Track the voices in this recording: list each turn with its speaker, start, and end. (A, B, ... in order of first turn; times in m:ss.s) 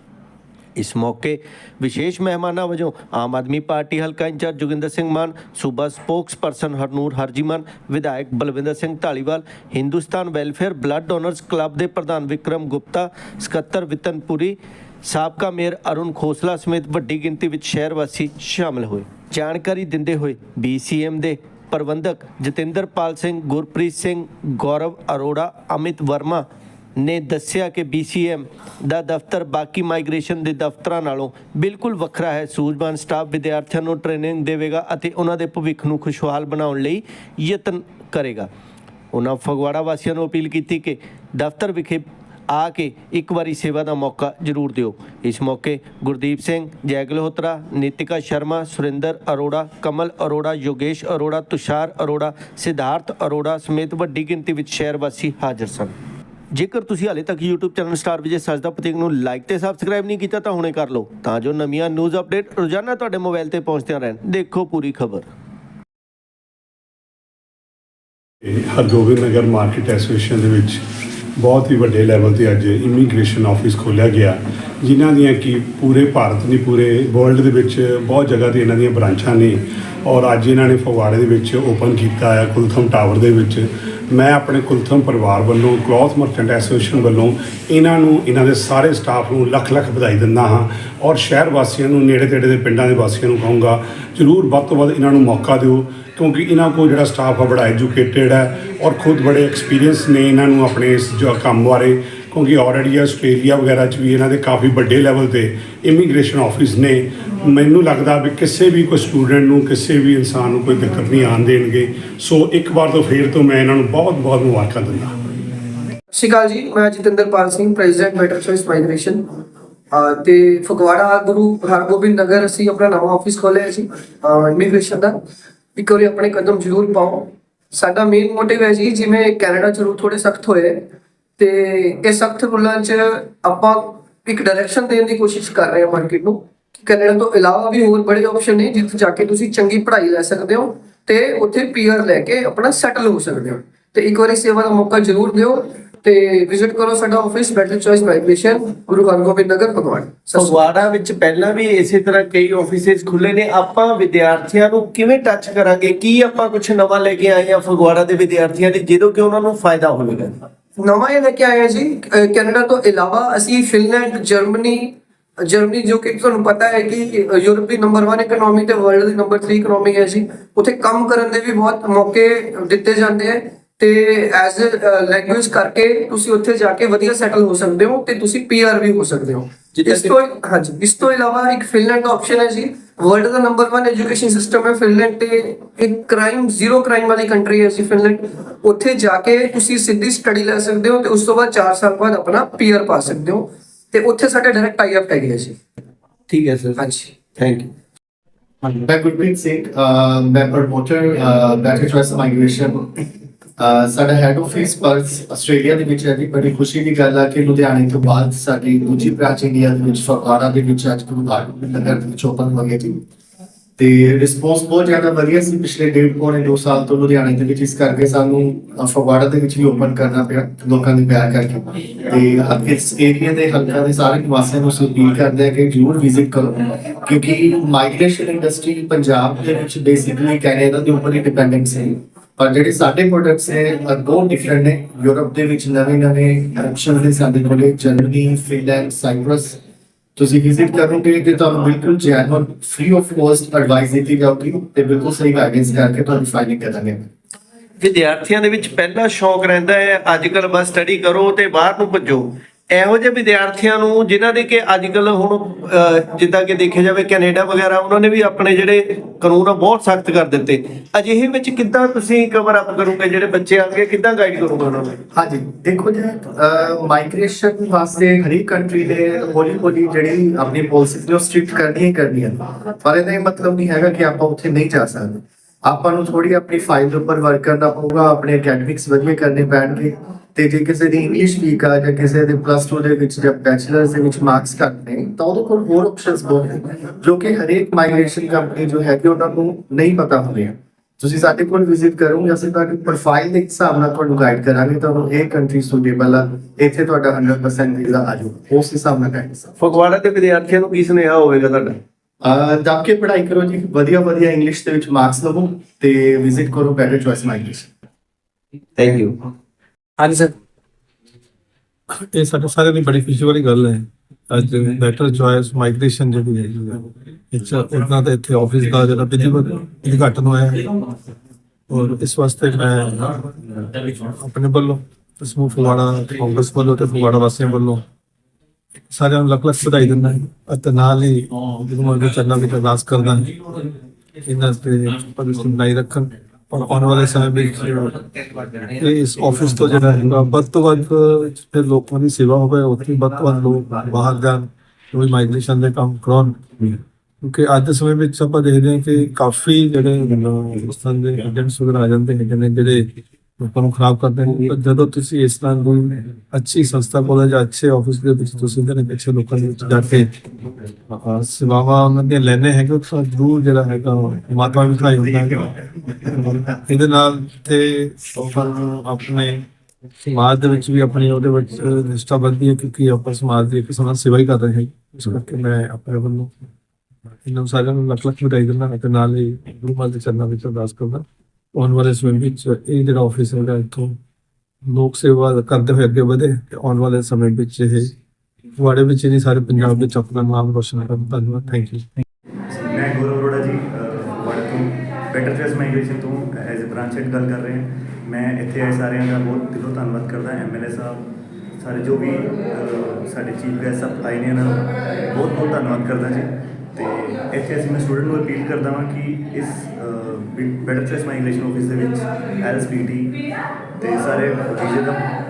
0:00.8-0:26.5 A
0:27.0-0:38.5 A
0:39.1-0:56.0 A
0:56.5-1:05.3 A
1:08.4-1:10.8 B
1:11.4-1:55.1 B
1:56.1-1:59.3 C
1:59.9-2:05.2 C
2:05.8-2:10.9 C
2:11.4-2:30.6 C
2:30.4-2:40.4 A
2:40.8-3:15.6 C
2:59.8-3:00.1 A
3:16.3-3:16.8 A
3:16.8-3:17.1 C
3:17.4-3:17.7 A
3:18.6-3:23.0 D
3:23.6-3:33.0 D
3:33.8-3:59.6 D
4:00.2-4:07.1 D
4:07.8-4:25.0 A
4:25.1-4:59.5 D
4:59.6-5:01.8 A
5:02.2-5:07.7 D
5:08.8-5:09.2 A
5:10.0-5:10.3 A
5:11.9-5:20.9 E
5:21.7-5:27.8 E
5:28.9-5:33.6 E
5:34.2-6:00.1 E
6:00.9-6:09.5 E
6:10.0-6:16.3 E
6:17.2-6:24.0 E
6:24.6-6:28.0 E
6:28.6-6:31.9 E
6:32.6-6:41.0 F
6:41.6-6:53.2 F
6:53.8-6:55.1 F